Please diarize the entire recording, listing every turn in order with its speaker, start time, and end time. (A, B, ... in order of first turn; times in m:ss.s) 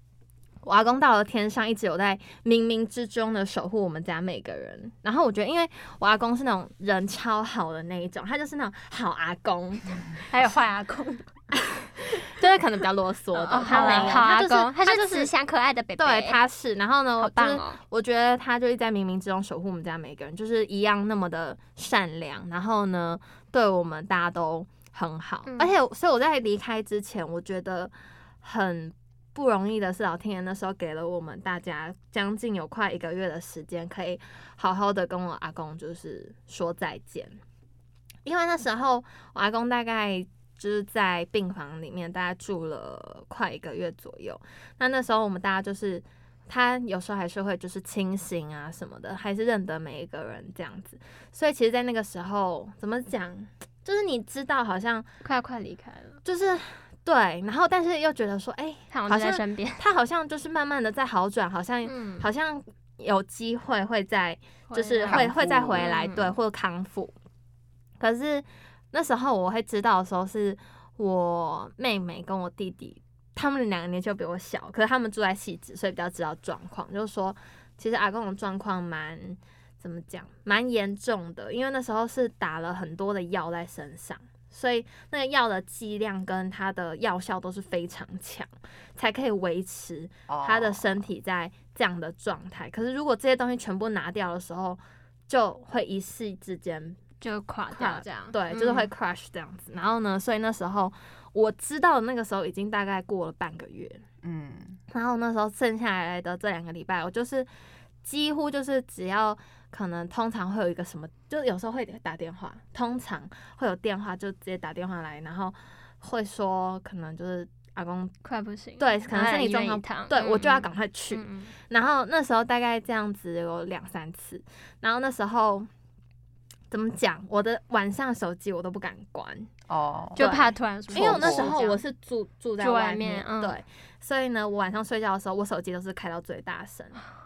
0:00.6-0:10.0 A
0:10.3-0:11.2 B
0:11.6-0:15.3 A
0:13.4-0:16.4 B
0:13.8-0:14.2 C
0:16.0-0:37.3 A
0:17.2-0:17.8 B
0:25.5-0:25.7 B
0:38.2-0:55.1 A
0:55.2-0:56.2 B
0:56.2-1:07.1 A
0:58.9-0:59.8 B
1:01.8-1:02.3 B
1:04.7-1:06.3 B
1:05.1-1:05.8 C
1:08.0-1:37.0 A
1:30.3-1:30.8 C
1:37.2-1:38.4 B
1:37.7-1:44.0 A
1:44.2-1:44.8 C
1:44.9-1:47.5 A
1:48.0-1:58.1 A
1:58.2-2:01.5 B
1:58.8-2:05.7 A
2:06.7-2:09.5 A
2:09.7-2:10.2 C
2:10.2-2:11.8 B
2:10.2-2:17.0 A
2:10.9-2:11.5 C
2:12.6-2:13.6 B